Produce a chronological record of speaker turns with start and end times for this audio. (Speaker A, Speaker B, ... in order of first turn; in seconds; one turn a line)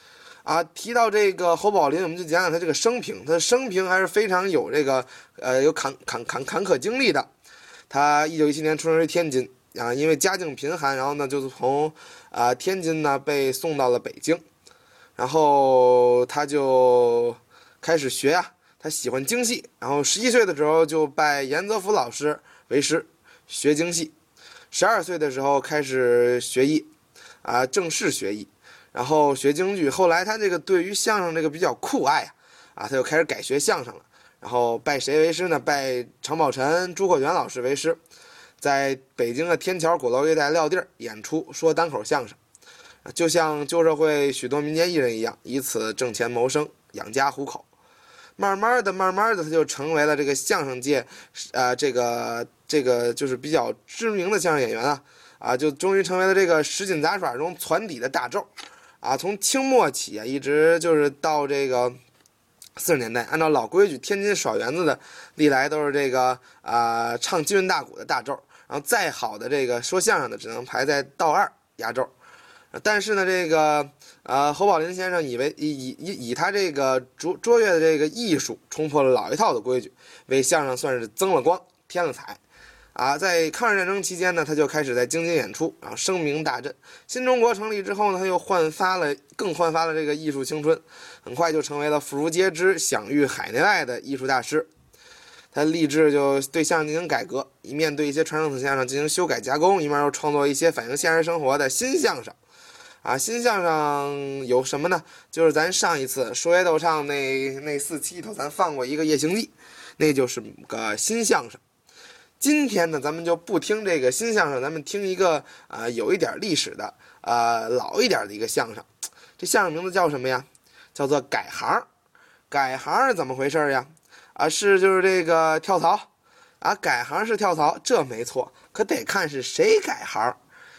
Speaker A: 0.4-7.3
Speaker A: 7.9-14.4
Speaker A: 15.2-24.1
Speaker A: 24.7-26.9
Speaker A: 27.4-38.0
Speaker A: 38.6-42.4
Speaker A: 43.0-47.7
Speaker A: 48.4-58.5
Speaker A: 59.0-62.0
Speaker A: 62.8-72.1
Speaker A: 72.7-82.4
Speaker A: 82.9-94.7
Speaker A: 95.5-102.4
Speaker A: 103.0-111.6
Speaker A: 112.4-118.9
Speaker A: 119.4-121.9
Speaker A: 122.5-126.1
Speaker A: 126.6-130.4